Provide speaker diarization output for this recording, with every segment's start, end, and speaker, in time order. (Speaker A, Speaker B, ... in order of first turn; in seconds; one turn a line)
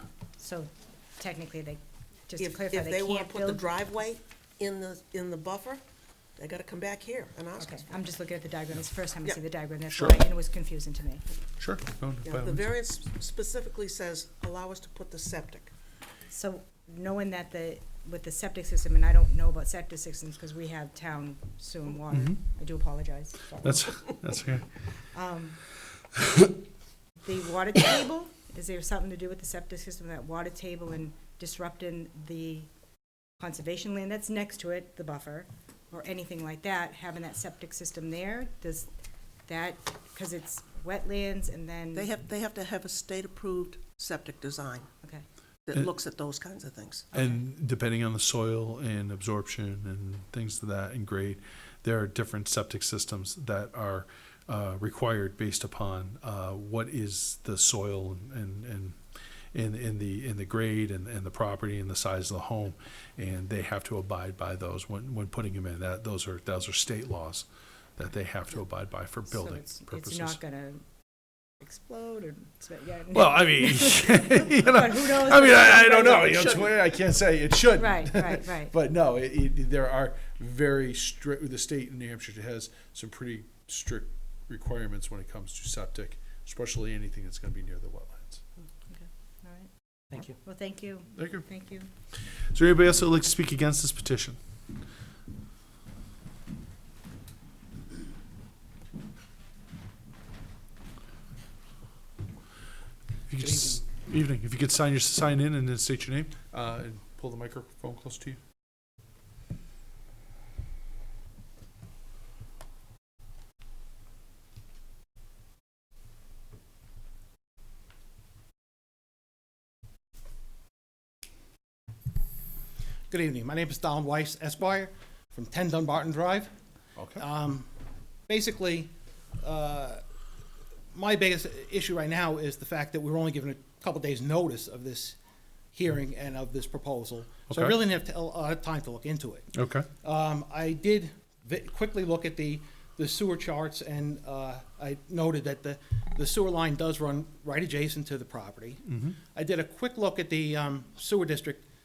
Speaker A: 0.4-3.6
Speaker B: 2.4-5.8
Speaker B: 6.4-7.9
Speaker A: 7.6-11.2
Speaker C: 9.9-10.2
Speaker C: 11.6-12.7
Speaker B: 12.2-15.7
Speaker A: 16.3-23.8
Speaker C: 22.1-22.4
Speaker C: 23.6-24.7
Speaker A: 25.1-25.6
Speaker A: 27.2-32.7
Speaker A: 33.4-38.9
Speaker A: 39.5-42.1
Speaker B: 41.9-44.9
Speaker B: 45.6-47.1
Speaker C: 47.1-59.0
Speaker A: 47.1-47.4
Speaker C: 59.5-67.5
Speaker C: 68.0-70.4
Speaker A: 69.3-70.8
Speaker A: 71.6-76.6
Speaker C: 73.1-88.4
Speaker A: 77.8-78.7
Speaker A: 88.9-89.7
Speaker A: 90.2-91.9
Speaker C: 91.1-91.5
Speaker C: 92.3-94.4
Speaker C: 103.3-108.4
Speaker D: 103.4-103.8
Speaker D: 123.1-126.5
Speaker C: 127.0-127.2
Speaker D: 127.2-127.7
Speaker D: 128.3-130.0
Speaker D: 130.9-135.2
Speaker D: 135.7-139.5
Speaker C: 137.5-137.8
Speaker C: 139.5-139.9
Speaker D: 140.0-151.6
Speaker C: 148.8-149.2